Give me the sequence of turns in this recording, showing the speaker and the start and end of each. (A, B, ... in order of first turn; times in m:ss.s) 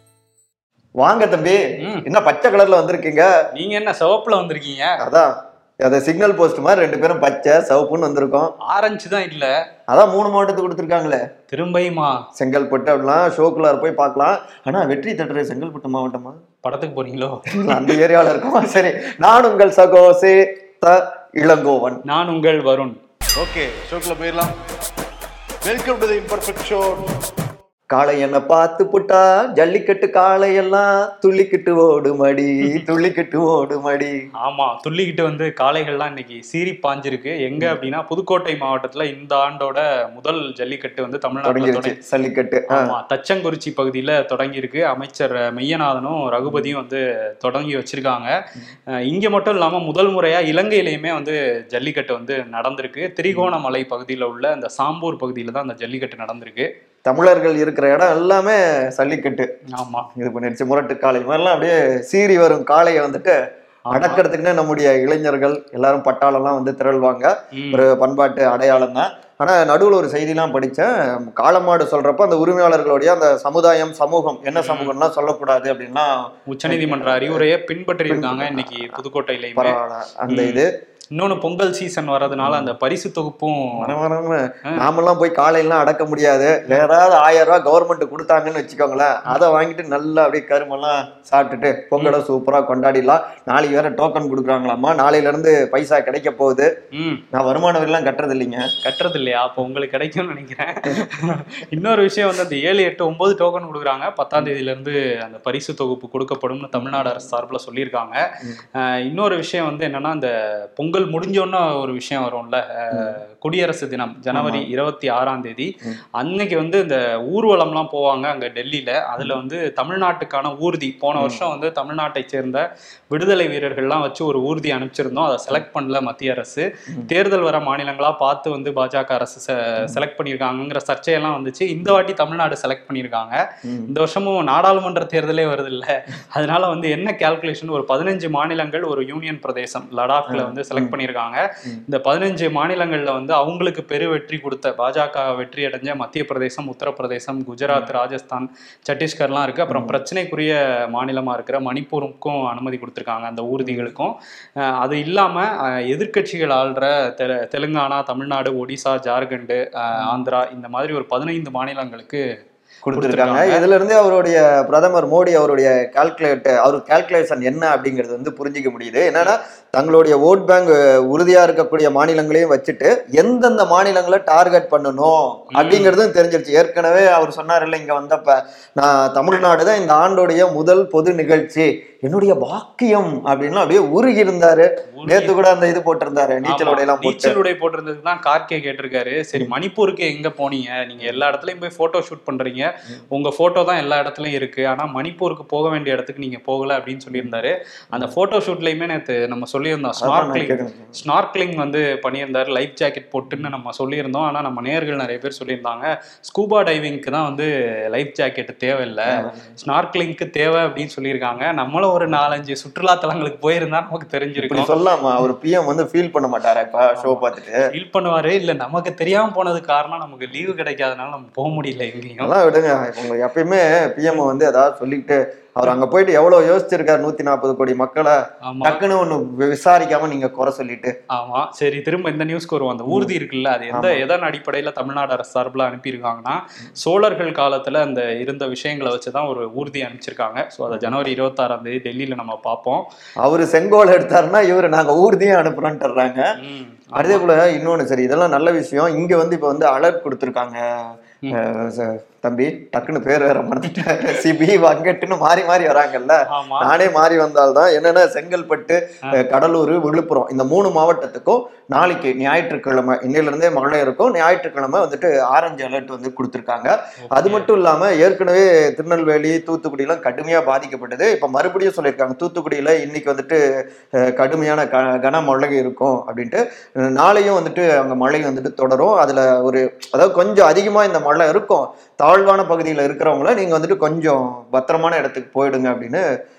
0:01.0-0:03.3 A
0:03.5-0:05.0 B
0:05.0-0:05.3 A
0:05.8-0:08.5 A
0:08.6-0:09.5 B
0:09.9-0:11.2 A
0:11.5-0:12.2 B
0:12.4-0:16.4 A
0:16.6-0:17.9 B
0:17.6-0:22.0 A
0:22.1-0:23.0 B
0:23.4-0:24.6 C
0:25.6-0:27.1 C
0:27.9-0:34.1 A
0:34.4-0:41.9 B
0:41.4-0:42.9 A
0:42.7-0:48.3 B
0:46.4-0:46.7 A
0:49.1-0:56.7 B
0:57.0-0:59.5 A
0:59.7-1:00.1 B
1:00.2-1:03.4 A
1:03.9-1:04.2 B
1:03.9-1:16.1 A
1:07.5-1:07.8 B
1:14.5-1:14.9 B
1:16.5-1:19.8 B
1:16.6-1:17.4 A
1:18.1-1:19.0 A
1:19.6-1:20.7 A
1:20.3-1:20.6 B
1:21.2-1:23.9 B
1:22.3-1:22.7 A
1:23.8-1:36.7 A
1:36.9-1:37.2 B
1:37.3-1:38.7 A
1:38.8-1:48.2 B
1:46.7-1:47.2 A
1:49.0-2:34.1 B
1:52.9-1:53.2 A
1:54.3-1:54.7 A
2:01.2-2:01.4 A
2:13.6-2:13.9 A
2:20.3-2:21.0 A
2:29.7-2:30.0 A
2:33.6-2:33.9 A
2:34.8-2:42.2 B
2:40.0-2:40.2 A
2:42.8-3:07.4 A
2:42.9-2:43.6 B
2:55.5-2:55.9 B
3:05.0-3:05.4 B
3:06.4-3:34.7 B
3:20.0-3:21.0 A
3:29.1-3:29.5 A
3:34.4-3:37.6 A
3:36.9-3:42.3 B
3:42.2-3:50.9 A
3:48.5-3:48.8 B
3:51.1-4:02.8 B
3:53.7-3:54.0 A
4:00.7-4:01.0 A
4:03.2-4:06.2 A
4:06.4-4:07.2 B
4:07.0-4:10.6 A
4:11.3-4:33.4 A
4:16.3-4:16.8 B
4:27.0-4:27.5 B
4:34.0-4:46.0 A